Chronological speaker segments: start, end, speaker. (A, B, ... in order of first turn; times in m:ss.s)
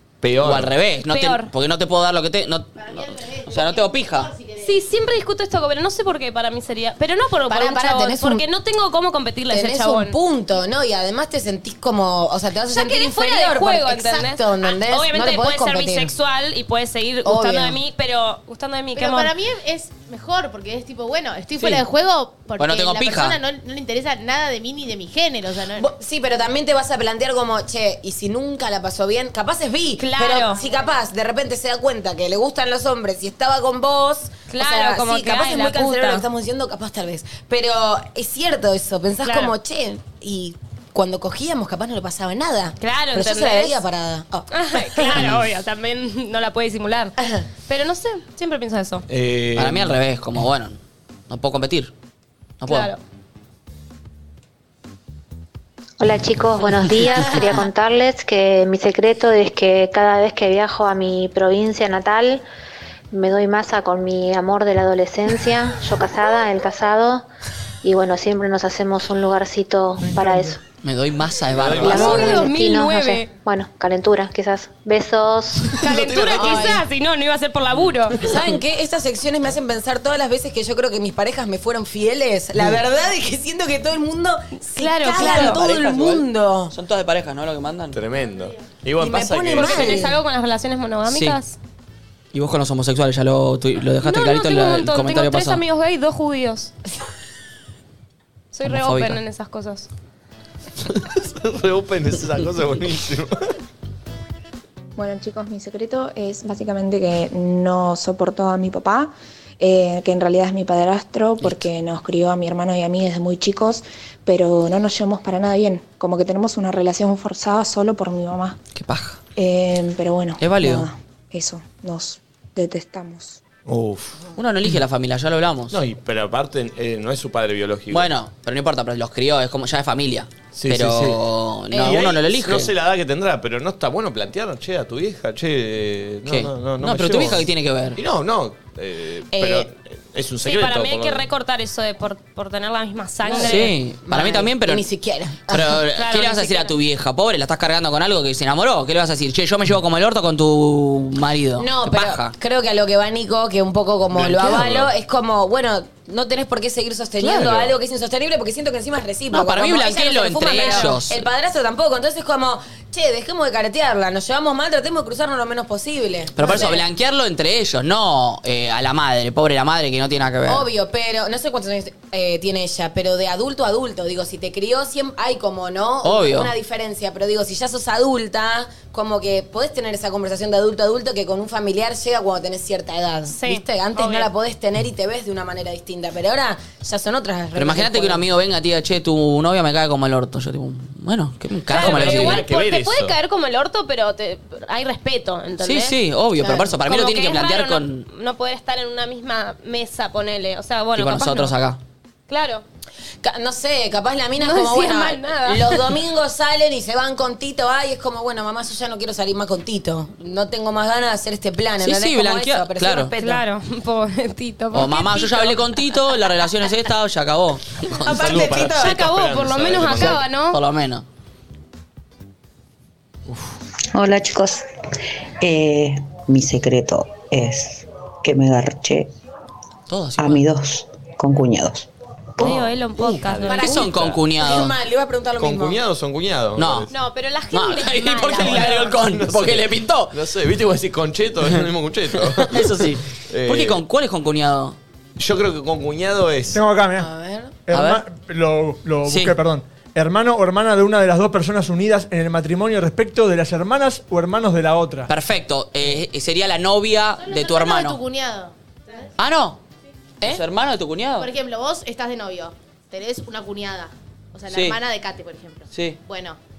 0:00.2-0:00.7 A
0:00.4-0:04.3 B
0:01.0-0:01.5 C
0:02.8-0:04.8 D
0:04.6-0:10.2 C
0:07.5-0:08.4 E
0:09.5-0:16.1 E
0:12.7-0:19.3 C
0:17.2-0:17.8 E
0:19.0-0:25.9 D
0:21.6-0:21.9 B
0:22.6-0:23.4 B
0:25.8-0:45.2 E
0:30.0-0:30.6 C
0:34.5-0:36.2 C
0:39.2-0:39.5 C
0:42.8-0:43.8 C
0:44.5-0:47.2 C
0:45.2-0:45.5 B
0:47.7-0:49.0 C
0:49.1-0:50.0 A
0:49.6-0:50.8 B
0:51.3-0:51.9 B
0:52.6-0:52.9 B
0:52.7-0:53.0 C
0:56.0-1:02.4 F
1:03.1-1:07.3 F
1:07.8-1:10.6 F
1:10.0-1:10.6 G
1:10.8-1:12.4 B
1:11.5-1:12.4 A
1:11.8-1:15.7 F
1:11.8-1:13.3 C
1:15.8-1:18.3 C
1:15.8-1:16.8 A
1:16.3-1:16.8 E
1:18.2-1:26.7 E
1:24.8-1:25.6 C
1:25.1-1:28.0 B
1:27.9-1:30.1 A
1:29.0-1:30.2 E
1:29.6-1:31.6 C
1:31.1-1:31.4 B
1:32.3-1:35.6 B
1:34.0-1:36.7 C
1:38.5-1:39.9 C
1:38.6-1:39.2 B
1:40.9-1:43.5 A
1:45.0-1:58.6 H
1:51.4-1:51.7 B
1:58.7-1:59.2 B
1:59.4-2:03.4 H
2:00.4-2:00.9 B
2:03.7-2:04.3 A
2:04.4-2:05.8 B
2:05.7-2:08.2 A
2:07.9-2:12.7 B
2:10.5-2:21.3 A
2:16.2-2:18.0 B
2:19.3-2:19.7 E
2:20.4-2:23.8 C
2:23.3-2:25.8 E
2:23.3-2:24.9 B
2:25.5-2:32.4 B
2:26.0-2:26.8 C
2:31.6-2:46.8 E
2:34.1-2:34.9 A
2:37.2-2:37.7 A
2:39.3-2:41.3 B
2:40.5-2:41.0 C
2:46.4-2:50.7 B
2:50.5-3:08.2 E
2:56.0-2:56.6 B
3:03.3-3:04.3 C
3:07.6-3:12.5 B
3:11.7-3:21.6 C
3:11.7-3:13.2 A
3:15.6-3:18.1 B
3:21.0-3:21.8 B
3:22.3-3:22.6 C
3:23.2-3:33.4 E
3:24.4-3:26.0 C
3:31.8-3:33.2 B
3:33.2-3:36.0 C
3:34.7-3:38.3 B
3:38.0-3:39.0 E
3:38.0-3:40.2 A
3:38.6-3:40.6 C
3:40.0-3:41.0 B
3:43.9-3:44.7 I
3:45.4-3:49.1 I
3:49.9-3:50.5 B
3:50.2-3:51.9 I
3:52.4-3:53.8 C
3:52.4-3:54.2 A
3:53.5-3:53.8 E
3:53.5-3:54.8 B
3:54.4-3:55.8 E
3:55.4-3:56.9 A
3:56.6-3:56.9 B
3:56.9-3:59.0 C
3:57.5-4:00.2 B
3:58.5-4:02.8 A
4:02.2-4:04.8 B
4:03.3-4:03.8 A
4:05.2-4:06.6 A
4:06.5-4:07.1 G
4:07.0-4:07.6 E
4:07.7-4:15.1 G
4:07.7-4:08.1 B
4:09.0-4:09.4 B
4:15.1-4:18.0 B
4:17.2-4:19.1 D
4:19.2-4:19.6 B
4:20.2-4:21.3 B
4:21.2-4:26.4 D
4:24.5-4:24.8 B
4:25.7-4:26.0 B